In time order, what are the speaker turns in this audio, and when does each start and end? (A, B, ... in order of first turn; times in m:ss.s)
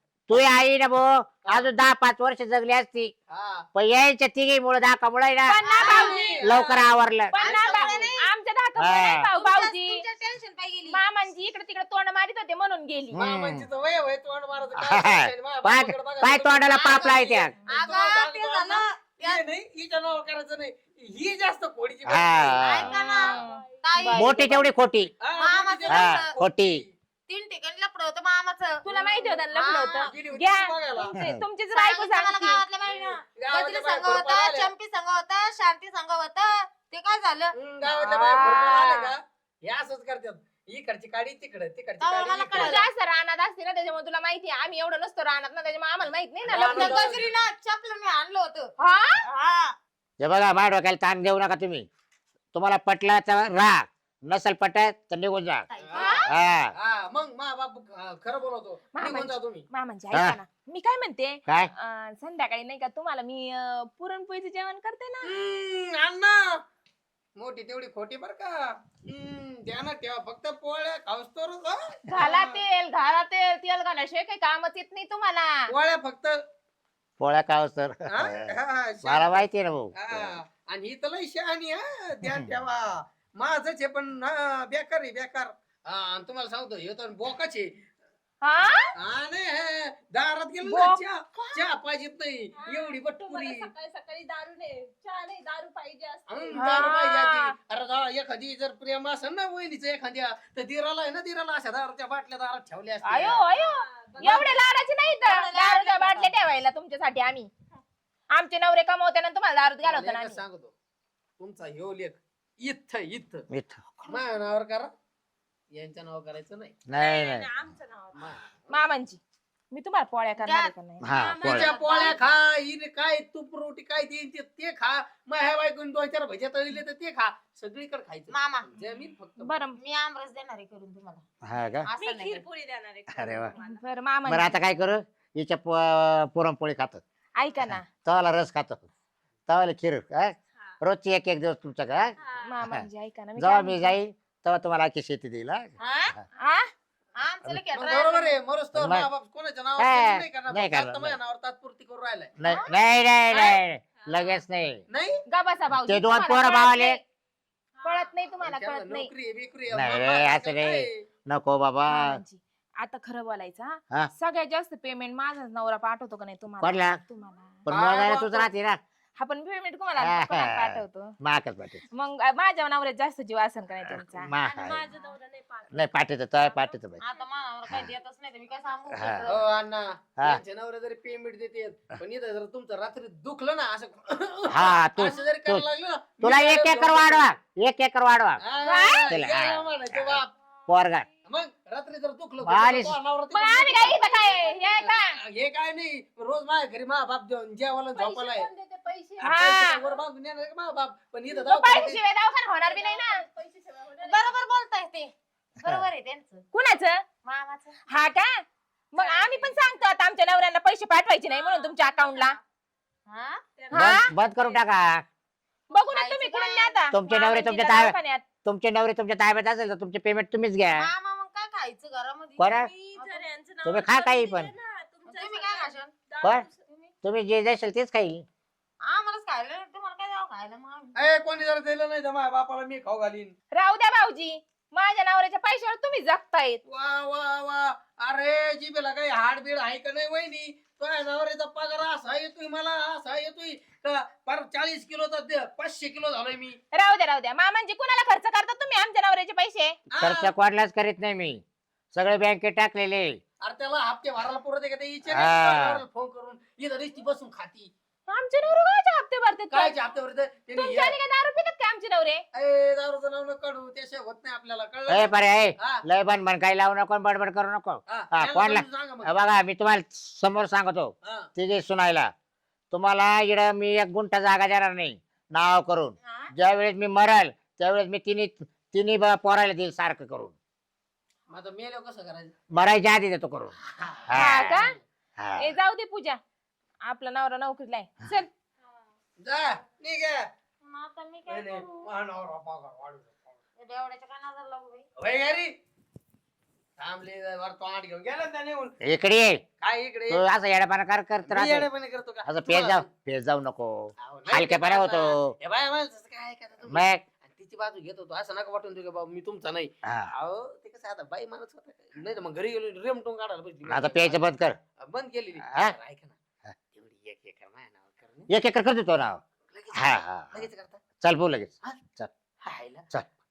0:00.3-0:03.1 A
0:03.3-0:03.6 B
0:03.7-0:05.6 A
0:05.4-0:06.3 C
0:05.6-0:06.5 D
0:05.8-0:06.9 B
0:06.4-0:07.3 A
0:07.3-0:10.0 C
0:07.4-0:08.3 D
0:08.8-0:09.2 A
0:09.3-0:11.0 D
0:10.9-0:13.2 C
0:13.1-0:13.6 A
0:13.2-0:22.6 B
0:14.8-0:17.5 A
0:16.7-0:19.4 D
0:22.0-0:22.9 A
0:22.6-0:24.6 D
0:22.8-0:24.6 C
0:24.1-0:25.1 A
0:25.2-0:26.9 B
0:25.4-0:26.4 D
0:25.9-0:26.8 A
0:27.3-0:30.1 D
0:28.8-0:32.6 C
0:30.1-0:31.2 B
0:31.1-0:31.4 A
0:31.7-0:37.5 D
0:32.8-0:34.7 B
0:37.5-0:42.8 B
0:37.8-0:39.1 C
0:42.0-0:42.8 D
0:42.5-0:47.1 C
0:46.5-0:47.3 B
0:46.5-0:49.8 D
0:48.8-0:49.2 C
0:50.2-0:51.9 A
0:52.5-0:55.6 A
0:55.7-0:56.3 D
0:55.8-0:56.2 B
0:55.9-0:56.3 C
0:56.3-0:56.7 A
0:56.7-0:59.6 B
0:58.9-1:05.3 C
1:05.2-1:06.5 B
1:07.4-1:12.6 B
1:12.1-1:15.7 C
1:15.7-1:16.4 B
1:17.2-1:18.5 A
1:18.1-1:27.7 B
1:19.0-1:20.3 A
1:28.4-1:28.9 C
1:28.9-1:33.7 B
1:30.6-1:31.5 C
1:32.6-1:36.9 E
1:36.3-1:43.5 B
1:36.6-1:37.5 C
1:43.0-1:47.5 C
1:43.4-1:44.6 E
1:45.2-1:46.3 D
1:48.3-1:50.4 C
1:49.8-1:50.7 B
1:51.4-1:53.4 B
1:53.5-1:54.2 A
1:54.1-1:54.9 B
1:55.7-1:56.8 B
1:56.9-1:57.5 A
1:56.9-1:58.3 E
1:58.1-1:58.7 B
1:58.7-1:59.2 C
1:59.7-2:01.0 C
2:00.4-2:02.2 D
2:01.0-2:01.7 A
2:01.4-2:09.6 B
2:01.9-2:02.2 E
2:08.3-2:08.7 D
2:09.4-2:09.8 C
2:09.8-2:11.2 D
2:11.4-2:11.9 A
2:11.8-2:12.4 D
2:12.0-2:13.8 E
2:13.1-2:13.5 A
2:13.6-2:14.6 C
2:14.2-2:17.0 A
2:17.4-2:17.8 C
2:17.6-2:18.8 A
2:19.5-2:22.1 A
2:22.2-2:22.5 E
2:22.4-2:23.9 C
2:22.6-2:25.7 A
2:25.8-2:26.2 D
2:26.4-2:26.7 C
2:27.2-2:28.3 D
2:27.7-2:32.3 B
2:28.7-2:29.1 A
2:29.8-2:31.2 A
2:32.4-2:34.8 A
2:32.4-2:32.7 C
2:33.3-2:33.6 B
2:34.0-2:34.4 E
2:34.9-2:35.2 B
2:35.3-2:37.0 C
2:35.9-2:37.0 A
2:37.8-2:39.1 C
2:38.3-2:41.0 B
2:39.7-2:42.2 A
2:41.9-2:47.6 C
2:46.6-2:47.0 A
2:47.6-2:48.8 A
2:47.7-2:48.5 B
2:49.2-2:51.1 C
2:50.0-2:51.8 A
2:51.9-2:54.3 C
2:54.0-2:54.8 A
2:54.4-2:57.3 E
2:55.7-2:57.0 A
2:57.0-2:59.4 D
2:58.9-2:59.2 A
2:59.3-3:07.3 B
3:04.5-3:05.6 A
3:06.2-3:08.4 A
3:08.4-3:10.3 B
3:08.6-3:09.1 C
3:09.1-3:11.1 A
3:11.2-3:14.0 B
3:12.4-3:13.0 A
3:13.3-3:15.1 C
3:13.9-3:14.9 E
3:14.7-3:18.5 B
3:17.9-3:20.0 E
3:19.2-3:22.0 B
3:19.2-3:19.8 C
3:21.3-3:23.2 C
3:22.6-3:24.4 E
3:24.0-3:26.4 D
3:26.5-3:27.0 C
3:27.2-3:27.8 D
3:27.9-3:32.4 C
3:29.0-3:29.8 E
3:31.2-3:32.4 E
3:33.1-3:33.4 D
3:33.6-3:34.6 E
3:33.7-3:34.1 C
3:33.7-3:35.0 A
3:35.7-3:38.2 C
3:35.9-3:36.8 D
3:36.9-3:40.9 A
3:40.7-3:43.3 D
3:42.4-3:42.7 A
3:42.6-3:46.6 E
3:43.6-3:44.5 A
3:45.0-3:46.0 D
3:47.0-3:48.2 A
3:48.8-3:51.0 D
3:50.9-3:53.3 B
3:53.5-3:56.6 C
3:56.7-4:06.6 B
4:06.7-4:09.8 C
4:09.9-4:10.3 B
4:10.0-4:13.2 A
4:13.4-4:17.7 B
4:15.1-4:15.8 A
4:18.1-4:19.7 C
4:19.5-4:21.0 B
4:20.6-4:22.2 C
4:22.3-4:25.8 B
4:24.9-4:32.1 A
4:27.9-4:29.1 B
4:32.7-4:40.3 A
4:41.3-4:42.3 B
4:42.5-4:43.5 A
4:43.7-4:44.7 B
4:44.1-4:44.6 A
4:44.1-4:44.7 C
4:45.2-4:45.5 A
4:45.4-4:46.2 C
4:46.8-4:48.3 C
4:49.2-4:50.2 B
4:50.6-4:51.9 D
4:51.3-4:53.2 B
4:53.6-4:54.9 D
4:55.0-4:55.5 B
4:56.8-4:58.8 B
4:58.8-4:59.4 A
4:59.6-5:00.2 B
5:00.1-5:01.7 A
5:01.2-5:02.8 B
5:02.2-5:05.3 A
5:04.0-5:14.3 B
5:06.7-5:07.0 A
5:09.8-5:10.1 A
5:13.7-5:14.6 A
5:14.8-5:16.2 B
5:15.5-5:15.7 A
5:16.7-5:18.3 B
5:18.3-5:19.2 A
5:19.5-5:20.8 B
5:19.7-5:20.3 A
5:21.0-5:22.1 A
5:22.4-5:22.9 B